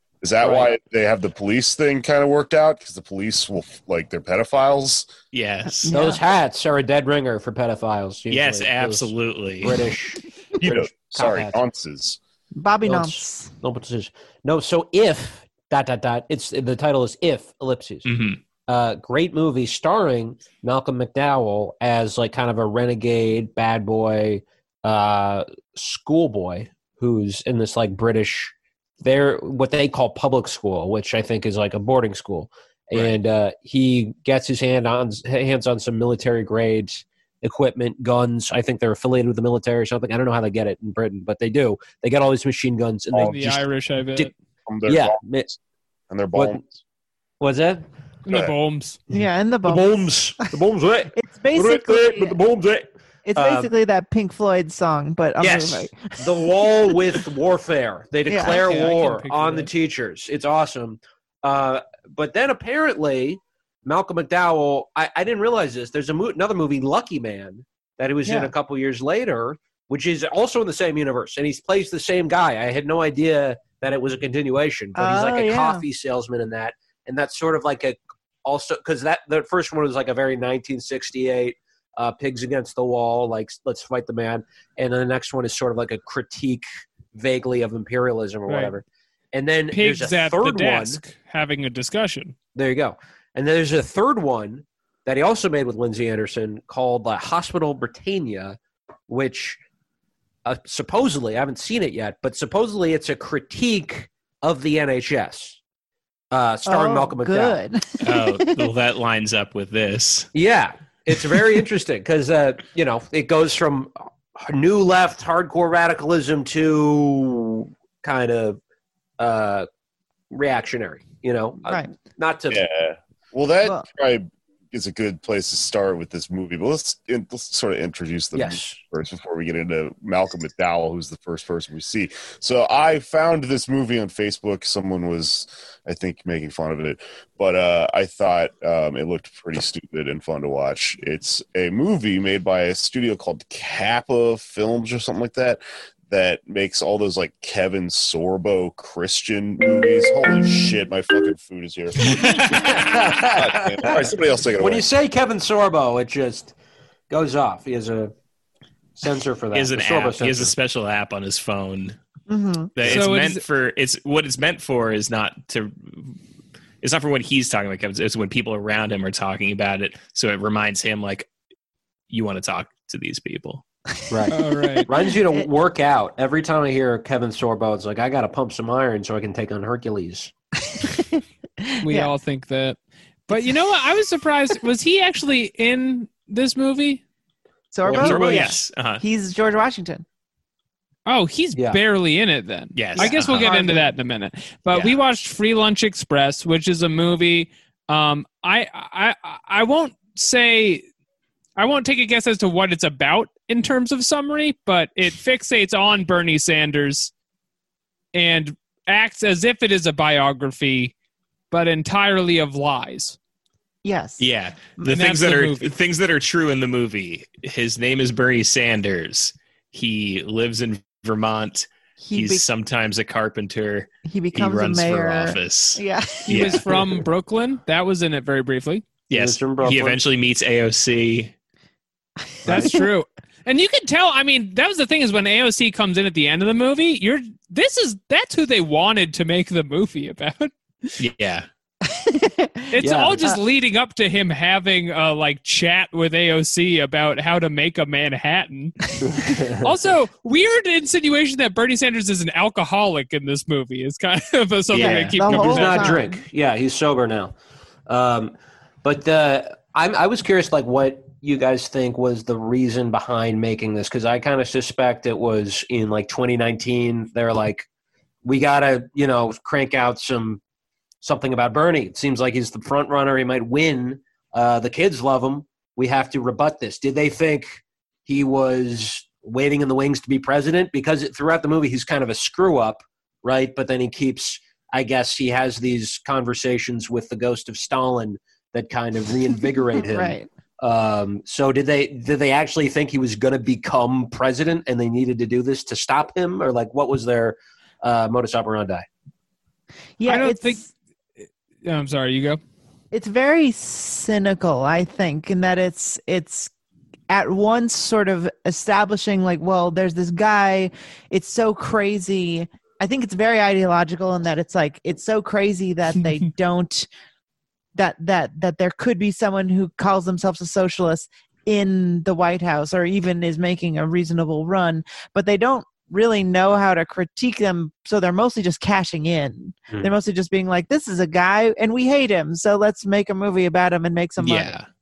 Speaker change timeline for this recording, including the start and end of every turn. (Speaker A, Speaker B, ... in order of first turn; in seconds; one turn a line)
Speaker A: 0.2-5.1
Speaker B: 0.4-0.7
Speaker C: 5.3-6.0
Speaker D: 5.8-6.2
Speaker B: 5.9-11.6
Speaker C: 8.3-9.8
Speaker A: 10.6-12.2
Speaker D: 12.5-13.5
Speaker B: 12.8-18.1
Speaker C: 18.0-18.4
Speaker B: 18.7-44.3
Speaker C: 32.9-33.2
Speaker E: 43.2-44.3
Speaker A: 44.7-45.6
Speaker B: 44.9-45.5
Speaker A: 46.1-46.8
Speaker B: 46.3-46.6
Speaker B: 47.4-47.8
Speaker E: 48.2-49.0
Speaker D: 49.1-50.5
Speaker B: 49.1-53.7
Speaker D: 51.1-52.4
Speaker D: 53.2-57.2
Speaker B: 55.4-91.0
Speaker D: 58.3-58.7
Speaker E: 58.5-59.7
Speaker D: 68.2-68.5
Speaker D: 74.9-75.8
Speaker E: 88.5-88.8
Speaker E: 89.7-92.3
Speaker B: 92.5-98.6
Speaker B: 99.1-99.6
Speaker B: 100.4-105.6
Speaker B: 106.3-107.6
Speaker D: 106.7-108.7
Speaker C: 108.0-110.3
Speaker B: 110.3-118.6
Speaker B: 119.2-119.7
Speaker B: 120.3-122.6
Speaker D: 121.7-122.0
Speaker A: 122.5-154.9
Speaker B: 128.3-128.8
Speaker C: 152.0-152.9
Speaker B: 152.3-156.5
Speaker B: 157.1-158.1
Speaker B: 159.0-160.5
Speaker C: 159.5-162.0
Speaker D: 162.3-162.7
Speaker C: 162.7-166.2
Speaker E: 162.8-163.4
Speaker C: 166.8-171.3
Speaker C: 172.1-173.6
Speaker B: 174.1-180.3
Speaker E: 174.3-174.9
Speaker D: 174.8-175.5
Speaker D: 180.6-182.1
Speaker E: 181.8-187.0
Speaker D: 187.7-190.0
Speaker B: 187.8-188.5
Speaker C: 187.9-189.0
Speaker E: 191.1-200.8
Speaker B: 191.5-191.8
Speaker C: 192.7-193.6
Speaker D: 193.0-193.9
Speaker E: 201.6-207.1
Speaker E: 208.1-210.9
Speaker E: 211.5-213.2
Speaker D: 213.8-214.9
Speaker C: 214.2-226.7
Speaker E: 214.8-215.7
Speaker D: 222.0-222.4
Speaker D: 224.0-226.5
Speaker E: 226.3-228.8
Speaker B: 226.5-227.0
Speaker C: 229.1-231.3
Speaker B: 229.1-230.0
Speaker D: 232.3-232.8
Speaker E: 232.5-241.0
Speaker C: 241.0-241.5
Speaker D: 241.8-243.4
Speaker E: 242.7-256.0
Speaker B: 242.8-243.2
Speaker B: 249.2-249.7
Speaker C: 254.7-255.2
Speaker D: 254.7-256.2
Speaker B: 255.2-257.4
Speaker B: 257.9-258.3
Speaker B: 258.8-267.7
Speaker B: 268.2-270.4
Speaker B: 271.0-298.9
Speaker D: 289.8-290.3
Speaker D: 300.0-300.7
Speaker E: 300.1-300.6
Speaker E: 301.6-302.4
Speaker D: 302.9-306.5
Speaker D: 307.1-316.9
Speaker D: 317.8-334.6
Speaker C: 334.2-334.7